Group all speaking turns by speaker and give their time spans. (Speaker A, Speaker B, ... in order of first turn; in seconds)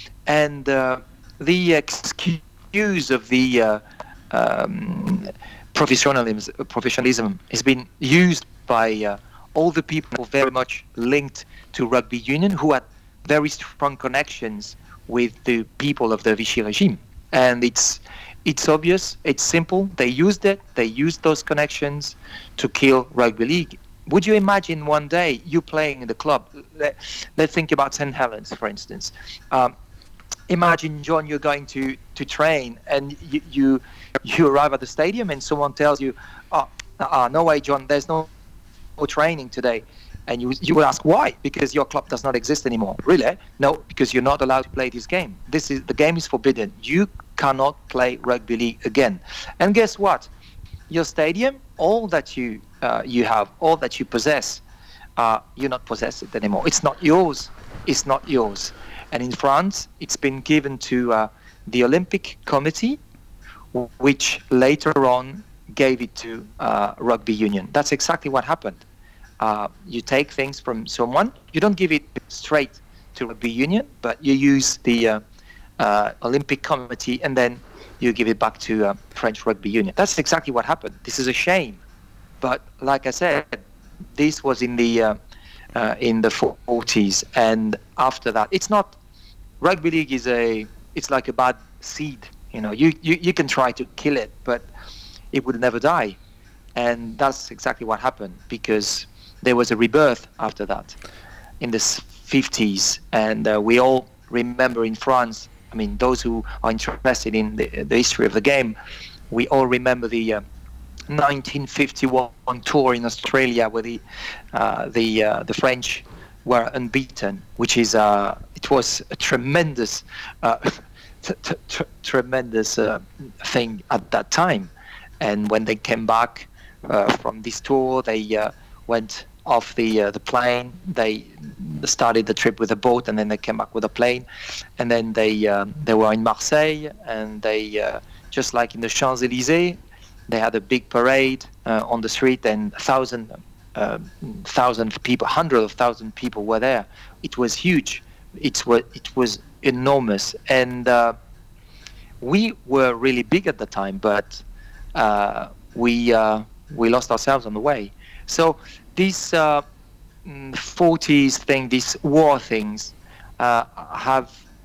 Speaker A: 0.3-29.7, 30.5-38.3, 39.0-50.3, 50.9-54.6, 55.2-63.0, 63.7-68.8, 69.4-75.2, 75.8-81.8, 82.4-83.6, 84.2-85.2, 85.8-89.0, 89.6-94.7, 95.3-96.2, 96.8-101.0, 101.6-108.8, 109.3-110.4, 111.1-114.0, 114.5-134.3, 134.8-151.2, 152.2-154.4, 154.9-159.6, 160.2-164.4